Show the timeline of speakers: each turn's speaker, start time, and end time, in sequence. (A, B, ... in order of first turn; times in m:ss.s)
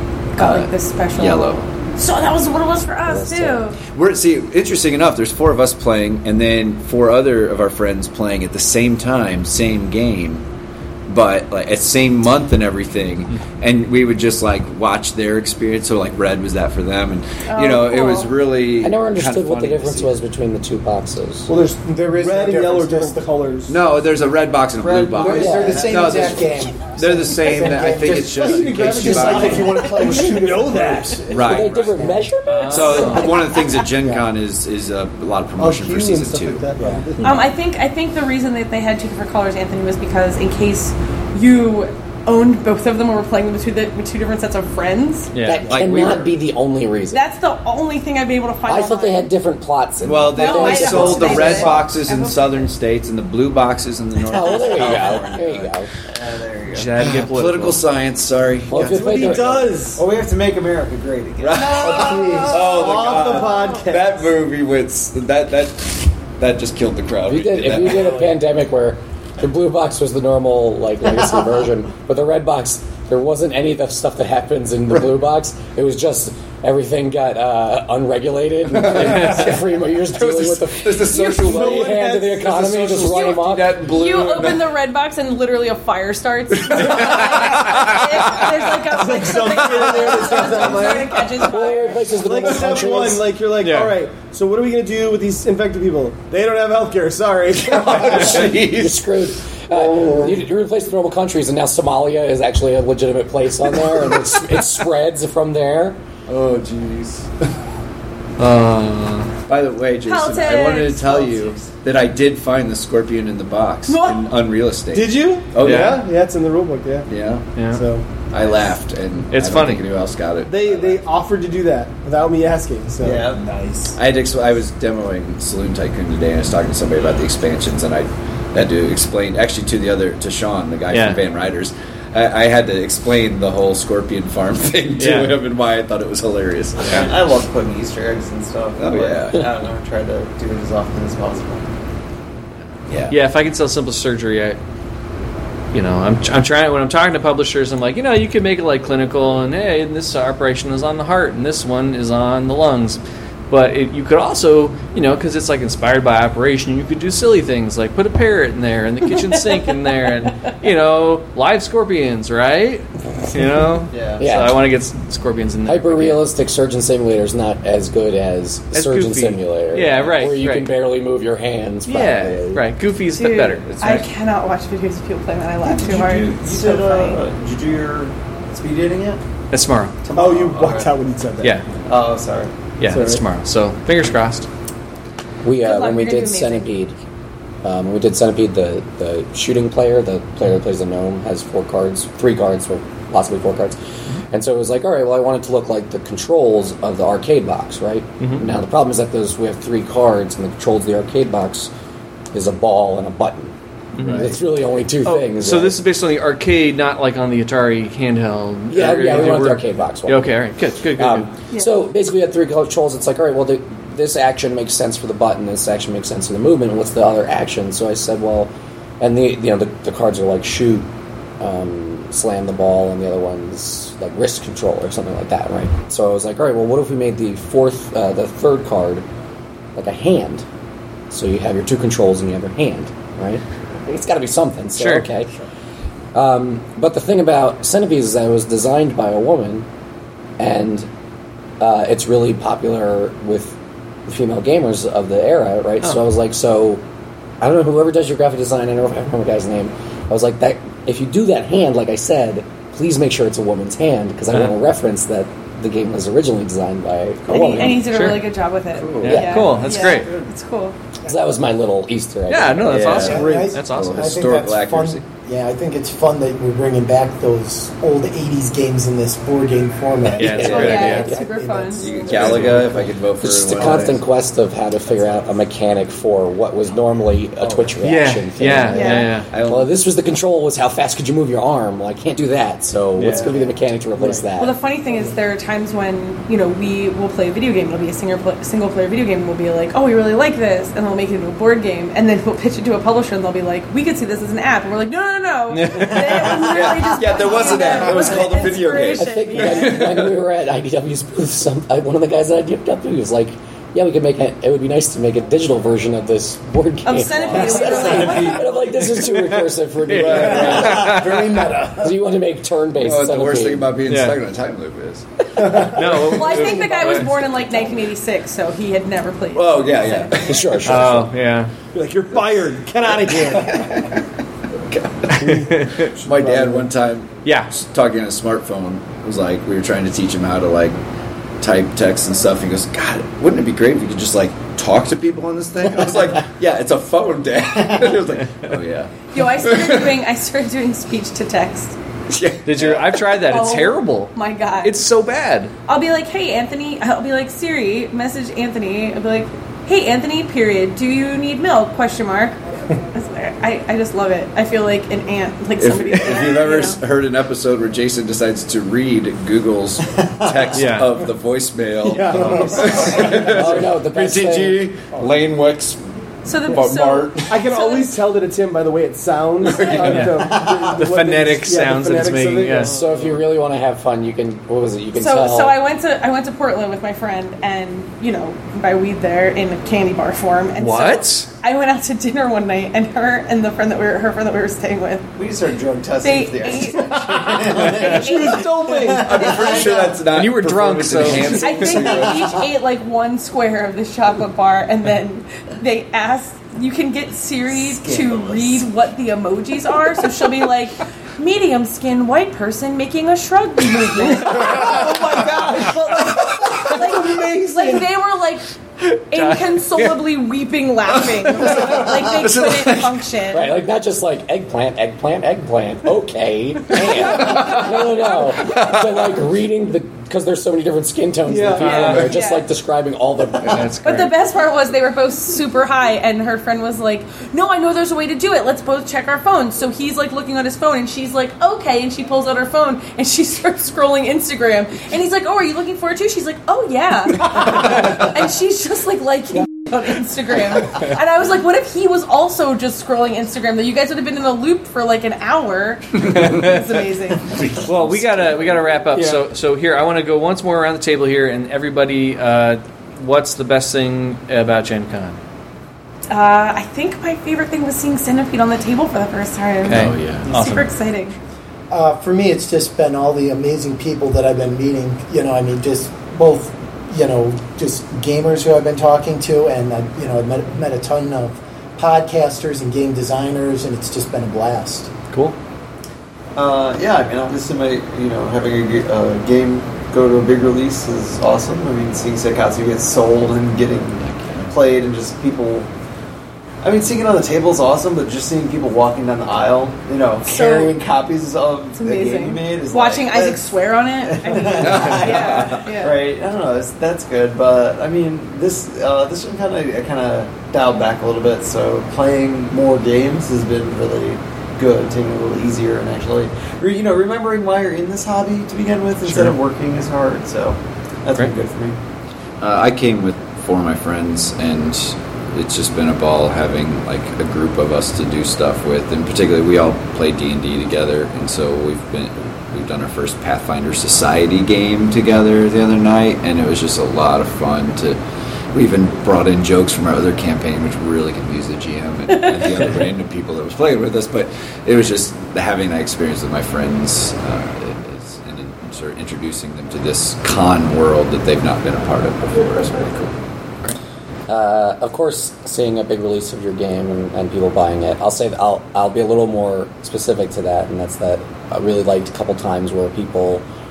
0:00.3-0:03.8 A
0:00.4-0:01.6 B
0:03.1-0:03.6 C
0:03.8-0:10.4 B
0:11.1-0:20.2 B
0:17.4-0:18.3 A
0:18.8-0:21.5 C
0:21.5-0:23.8 D
0:21.8-0:23.3 E
0:23.7-0:29.9 B
0:24.8-0:26.4 F
0:25.2-0:32.3 E
0:25.3-0:25.9 C
0:28.3-0:31.2 D
0:31.3-0:32.0 B
0:31.3-0:33.6 C
0:32.5-0:33.3 G
0:32.6-0:36.6 B
0:34.0-0:34.3 E
0:35.6-0:37.5 D
0:36.6-0:37.1 E
0:37.2-0:45.3 A
0:45.3-0:45.7 G
0:45.4-0:47.2 C
0:45.6-0:46.4 B
0:47.1-0:49.3 A
0:48.7-0:51.8 C
0:50.0-0:55.7 B
0:50.3-0:52.7 A
0:54.2-0:55.9 C
0:56.1-0:57.0 F
0:56.7-0:57.8 G
0:57.0-0:59.6 B
0:58.7-0:59.8 C
0:58.7-1:00.0 D
0:59.9-1:01.7 F
1:01.4-1:08.3 B
1:01.6-1:03.0 A
1:01.8-1:02.6 E
1:02.5-1:04.2 D
1:07.2-1:23.8 C
1:18.7-1:19.6 B
1:19.0-1:19.4 G
1:20.1-1:24.7 B
1:21.4-1:22.8 D
1:23.0-1:32.2 A
1:26.6-1:28.6 B
1:28.9-1:31.3 D
1:31.4-1:33.3 C
1:32.1-1:38.5 D
1:33.6-1:34.0 G
1:37.6-1:39.0 B
1:38.2-1:46.0 C
1:39.8-1:40.4 B
1:46.3-1:47.3 B
1:48.4-1:49.3 G
1:49.5-1:56.0 B
1:50.0-1:51.5 A
1:53.9-1:54.4 A
1:54.9-1:57.1 D
1:55.6-1:56.0 G
1:57.1-1:57.5 B
1:57.6-1:57.8 G
1:57.7-1:58.0 D
1:58.3-2:01.0 B
1:59.3-1:59.8 G
2:00.5-2:03.2 D
2:03.0-2:03.4 F
2:03.2-2:04.0 E
2:03.9-2:17.1 B
2:10.9-2:11.2 G
2:15.0-2:15.3 G
2:16.8-2:21.7 F
2:18.8-2:19.5 B
2:23.1-2:24.6 G
2:25.7-2:46.2 G
2:43.9-2:44.2 F
2:44.2-2:44.6 C
2:45.6-2:52.6 C
2:48.7-2:50.7 G
2:51.8-2:53.8 G
2:53.1-2:57.2 A
2:53.6-2:54.1 B
2:55.6-2:59.2 F
2:59.5-3:00.0 G
3:00.0-3:00.9 F
3:00.1-3:01.6 D
3:01.8-3:02.5 F
3:02.8-3:04.5 G
3:02.8-3:03.2 D
3:05.4-3:07.0 C
3:05.6-3:06.7 A
3:07.6-3:13.8 C
3:14.3-3:21.7 C
3:18.2-3:18.5 G
3:22.3-3:23.5 C
3:23.9-3:24.3 G
3:24.0-3:24.2 B
3:24.0-3:25.8 C
3:25.0-3:31.3 G
3:28.7-3:30.4 C
3:31.0-3:40.9 C
3:31.5-3:31.8 A
3:41.4-3:49.0 C
3:49.8-3:50.4 C
3:51.1-3:55.3 C
3:54.8-3:55.1 G
3:56.1-3:59.7 C
4:00.4-4:00.9 C
4:01.6-4:03.6 C
4:04.1-4:06.8 C
4:07.4-4:17.8 C
4:17.3-4:20.8 A
4:17.8-4:18.2 G
4:18.8-4:19.2 B
4:19.0-4:20.1 G
4:19.1-4:19.5 C
4:21.0-4:23.1 C
4:22.3-4:24.2 G
4:22.7-4:25.0 B
4:22.9-4:32.5 E
4:30.2-4:31.1 G
4:30.3-4:30.9 B
4:30.4-4:32.5 A
4:30.8-4:31.2 C
4:31.8-4:34.0 B
4:33.2-4:44.6 C
4:37.4-4:37.7 B
4:37.8-4:39.3 G
4:38.7-4:39.2 A
4:39.3-4:39.7 B
4:43.0-4:43.4 G
4:44.4-4:59.9 A
4:55.5-4:56.4 G
4:56.1-4:56.7 F
4:56.3-5:00.2 B
4:57.5-4:58.2 F
4:58.9-5:11.2 C
5:06.8-5:08.6 A
5:07.3-5:08.2 F
5:09.8-5:11.2 G
5:09.9-5:11.0 B
5:10.1-5:12.0 E
5:11.8-5:13.7 C
5:12.8-5:15.0 B
5:13.9-5:14.2 G
5:15.4-5:17.2 G
5:16.0-5:20.1 A
5:19.3-5:20.6 B
5:20.1-5:21.1 C
5:20.6-5:21.5 G
5:21.7-5:23.7 D
5:23.4-5:23.9 B
5:24.7-5:25.4 B
5:25.2-5:26.7 D
5:25.2-5:25.8 G
5:26.0-5:30.8 B
5:27.2-5:27.5 G
5:31.4-5:40.0 B
5:39.1-5:41.8 A
5:42.1-5:43.0 B
5:42.4-5:45.5 G
5:43.1-5:44.8 A
5:45.7-5:52.4 A
5:52.9-5:56.8 A
5:55.6-6:05.8 B
6:00.0-6:00.6 F
6:00.5-6:00.9 G
6:01.8-6:03.3 D
6:03.3-6:04.7 C
6:06.2-6:07.9 A
6:06.4-6:07.4 B
6:07.3-6:12.7 D
6:09.4-6:10.1 B
6:09.5-6:09.9 A
6:09.8-6:12.7 G
6:12.7-6:15.6 C
6:14.9-6:25.1 A
6:20.6-6:21.3 G
6:25.2-6:30.0 F
6:26.0-6:29.9 A
6:28.0-6:29.4 D
6:28.9-6:32.4 B
6:30.0-6:31.8 G
6:31.2-6:48.4 A
6:31.9-6:32.2 F
6:37.5-6:38.7 F
6:44.2-6:46.1 F
6:44.7-6:45.6 D
6:46.8-6:47.8 D
6:49.0-6:53.5 A
6:49.1-6:50.0 G
6:51.4-6:53.0 B
6:53.3-7:03.7 C
6:56.7-6:59.0 B
6:57.2-6:57.6 A
7:01.3-7:02.0 D
7:01.6-7:02.5 A
7:01.7-7:02.0 G
7:03.4-7:04.2 G
7:03.8-7:27.4 A
7:26.1-7:26.4 B
7:26.1-7:26.6 G
7:27.6-7:35.2 G
7:28.9-7:29.2 D
7:36.1-7:41.2 A
7:39.6-7:40.7 G
7:39.6-7:40.4 B
7:41.7-7:54.9 E
7:56.4-8:05.7 F
8:04.0-8:04.5 B
8:06.6-8:31.8 F
8:10.2-8:10.8 A
8:11.7-8:16.0 A
8:14.6-8:15.6 B
8:29.1-8:29.3 G
8:32.4-8:48.0 B
8:48.5-9:03.1 B
8:52.1-8:52.5 A
9:04.3-9:13.4 C